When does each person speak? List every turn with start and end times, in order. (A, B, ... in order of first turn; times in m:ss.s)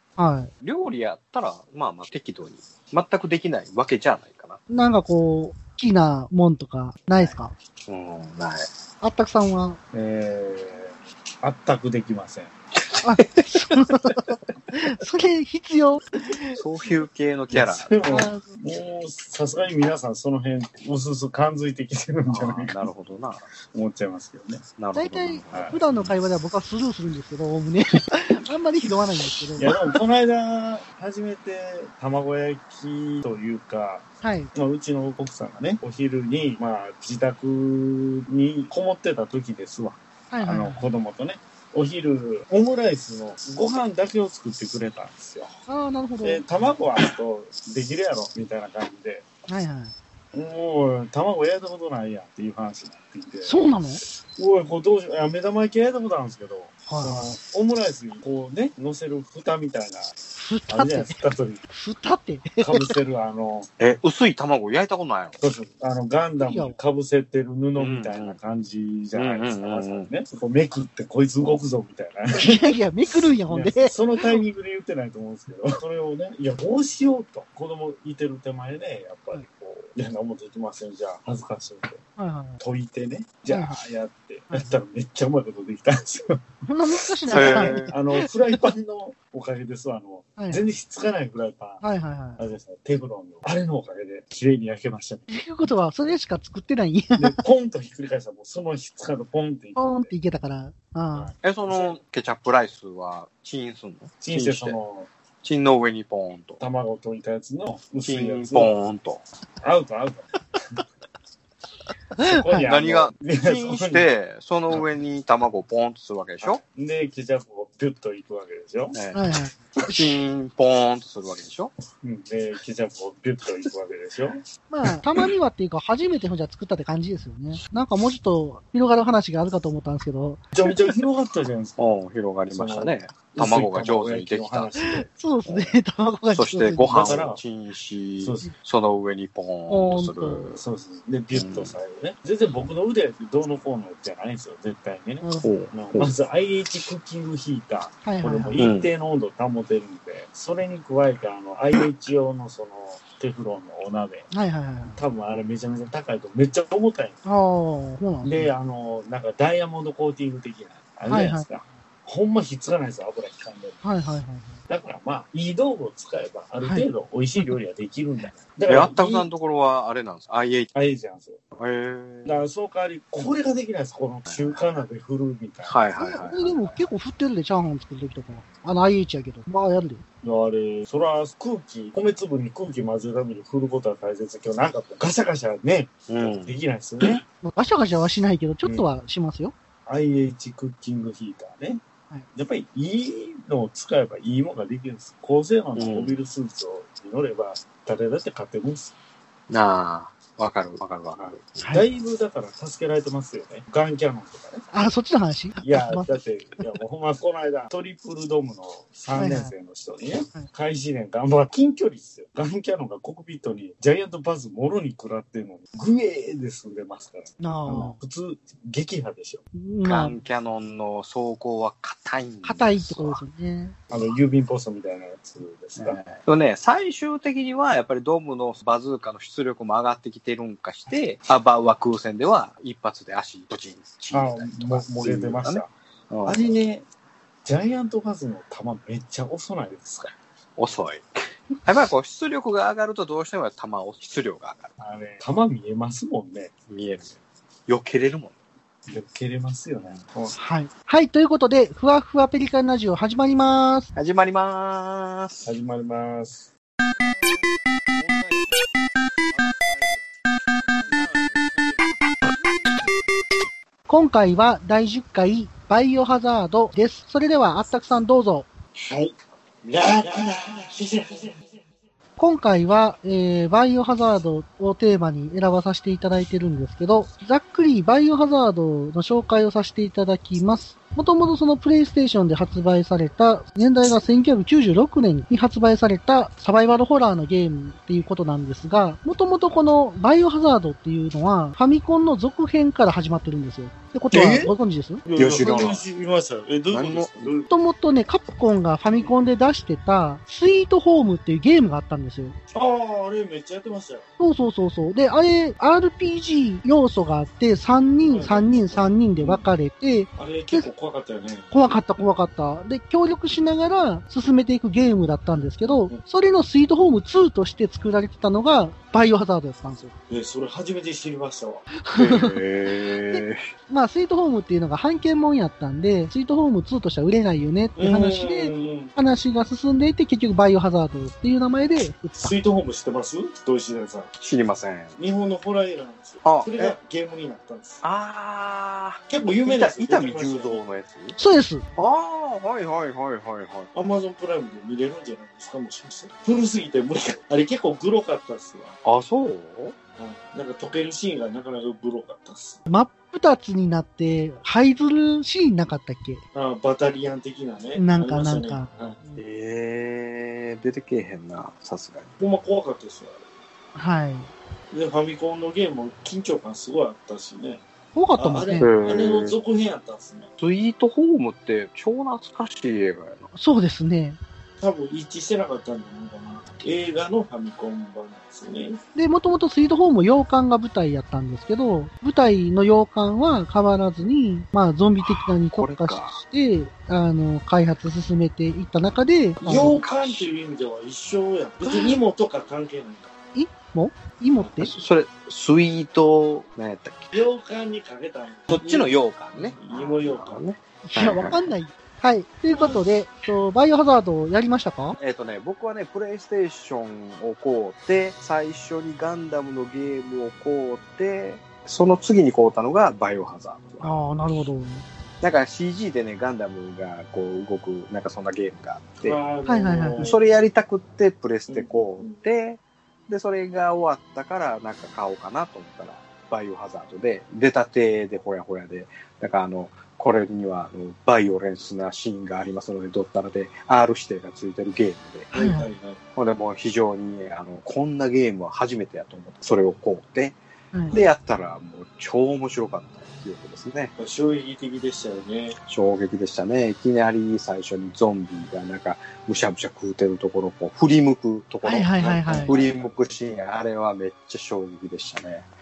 0:00.2-0:00.5 A
0:00.6-0:04.6 B
0:04.7-0:07.5 A
0:07.9-0:08.7 B
0:09.0-0:09.8 A
0:09.9-0:12.5 C
0:13.0-0:16.5 A
0:13.2-0:14.0 B
0:16.5-0:17.9 B
0:17.5-0:22.8 C
0:18.1-0:18.5 A
0:22.3-0:23.4 B
0:23.7-0:24.6 C
0:24.8-0:26.1 B
0:24.9-0:29.7 A
0:25.5-0:25.8 C
0:29.6-0:45.5 C
0:34.2-0:34.5 A
0:40.3-0:40.8 A
0:45.7-0:46.4 A
0:46.2-0:49.2 C
0:49.5-0:49.9 A
0:50.3-0:53.6 C
0:53.4-0:54.0 A
0:54.3-1:00.1 C
0:56.9-0:57.2 A
1:00.4-1:01.2 A
1:00.7-1:01.6 C
1:01.7-1:02.9 A
1:02.6-1:03.7 C
1:03.8-1:05.4 B
1:05.4-1:12.5 C
1:06.4-1:06.8 A
1:07.8-1:08.4 B
1:09.1-1:10.1 B
1:12.4-1:14.4 A
1:13.5-1:22.0 C
1:22.2-1:22.6 A
1:22.6-1:26.4 C
1:23.5-1:23.8 A
1:26.6-1:28.2 A
1:27.2-1:31.8 C
1:27.3-1:27.9 B
1:30.4-1:30.6 A
1:31.8-1:32.4 A
1:32.4-1:35.3 C
1:35.3-1:37.4 A
1:37.2-1:40.1 C
1:39.8-1:41.3 A
1:41.1-1:42.0 C
1:41.4-1:44.8 B
1:44.2-1:45.1 C
1:45.4-1:46.6 B
1:46.6-1:48.7 C
1:48.0-1:49.2 B
1:49.6-1:50.2 C
1:52.2-1:52.6 A
1:52.2-1:54.1 C
1:52.6-1:56.6 B
1:56.4-1:59.0 C
1:58.9-1:59.2 B
1:59.1-2:00.1 A
1:59.8-2:01.7 B
2:02.0-2:04.4 C
2:04.7-2:10.4 A
2:10.5-2:11.8 C
2:11.8-2:14.7 B
2:12.5-2:15.1 C
2:14.8-2:17.1 A
2:15.5-2:15.7 B
2:16.3-2:20.6 B
2:16.9-2:17.4 C
2:18.2-2:18.5 C
2:19.7-2:20.4 A
2:20.6-2:34.3 C
2:21.3-2:21.7 B
2:25.2-2:25.5 A
2:25.4-2:26.1 B
2:28.0-2:28.6 A
2:28.6-2:28.9 B
2:34.3-2:35.0 A
2:34.9-2:37.2 C
2:37.2-2:38.5 A
2:38.2-2:43.8 C
2:41.1-2:41.4 A
2:43.8-2:44.6 A
2:44.7-2:49.3 C
2:46.6-2:46.9 A
2:48.6-2:50.7 B
2:50.7-2:51.4 C
2:51.5-2:52.4 B
2:52.2-2:55.8 C
2:54.3-2:54.6 B
2:55.6-2:56.8 B
2:56.0-3:00.0 A
3:00.2-3:07.2 C
3:06.1-3:07.2 B
3:07.4-3:09.5 A
3:09.9-3:11.8 C
3:12.3-3:18.9 C
3:15.8-3:16.2 B
3:19.5-3:21.5 B
3:21.2-3:24.7 C
3:24.7-3:26.1 A
3:25.6-3:39.4 C
3:29.1-3:29.5 A
3:37.4-3:38.0 A
3:39.5-3:40.2 A
3:39.8-3:43.2 B
3:42.4-3:43.8 A
3:43.9-3:46.0 C
3:45.8-3:56.4 B
3:54.1-3:55.7 C
3:56.2-3:56.8 C
3:57.4-4:00.1 C
4:00.6-4:01.1 B
4:01.6-4:04.7 B
4:04.8-4:06.5 C
4:06.7-4:07.1 B
4:07.7-4:08.3 B
4:08.9-4:10.4 C
4:10.4-4:13.9 A
4:13.9-4:15.5 B
4:15.4-4:16.5 C
4:17.9-4:18.6 C
4:19.3-4:19.9 C
4:20.8-4:23.0 C
4:23.9-4:28.5 A
4:28.8-4:31.4 C
4:32.2-4:55.0 A
4:54.1-4:54.5 C
4:55.0-4:57.5 C
4:55.1-4:55.8 B
4:56.7-4:57.3 B
4:57.5-5:02.4 A
5:02.5-5:04.0 C
5:04.2-5:10.7 A
5:08.0-5:09.4 C
5:10.2-5:11.5 C
5:11.5-5:19.9 A
5:20.1-5:21.7 C
5:21.8-5:22.4 A
5:21.9-5:23.4 B
5:23.1-5:32.3 A
5:27.8-5:28.9 C
5:32.2-5:34.1 C
5:34.2-5:35.0 B
5:35.0-5:37.8 C
5:36.2-5:36.8 B
5:37.8-5:41.2 B
5:39.1-5:40.6 C
5:41.2-5:41.6 A
5:41.8-5:43.7 B
5:43.7-5:48.8 C
5:48.8-5:49.8 B
5:50.0-5:52.6 C
5:52.7-5:56.2 A
5:56.3-5:59.0 C
5:57.8-5:59.2 A
5:59.1-6:02.1 B
6:02.2-6:03.3 C
6:03.7-6:04.3 A
6:04.7-6:07.6 C
6:07.9-6:08.7 A
6:08.2-6:10.3 C
6:08.6-6:09.3 B
6:10.4-6:13.2 B
6:13.3-6:14.2 A
6:14.6-6:18.8 C
6:18.9-6:29.7 A
6:25.1-6:26.2 B
6:29.4-6:33.1 C
6:29.5-6:30.3 B
6:31.6-6:32.0 A
6:33.3-6:34.7 A
6:34.4-6:34.6 C
6:34.6-6:37.1 B
6:37.1-6:40.4 C
6:38.5-6:41.5 B
6:40.8-6:45.0 A
6:42.5-6:42.8 C
6:45.0-6:53.9 B
6:53.8-6:54.8 A
6:55.2-6:59.2 B
6:59.0-7:00.2 C
6:59.4-7:00.1 A
7:00.0-7:15.3 B
7:01.5-7:02.2 C
7:15.3-7:16.0 C
7:15.3-7:15.7 A
7:16.1-7:20.4 B
7:20.9-7:23.9 B
7:24.0-7:25.6 C
7:25.7-7:35.4 B
7:31.6-7:32.5 A
7:31.9-7:33.0 C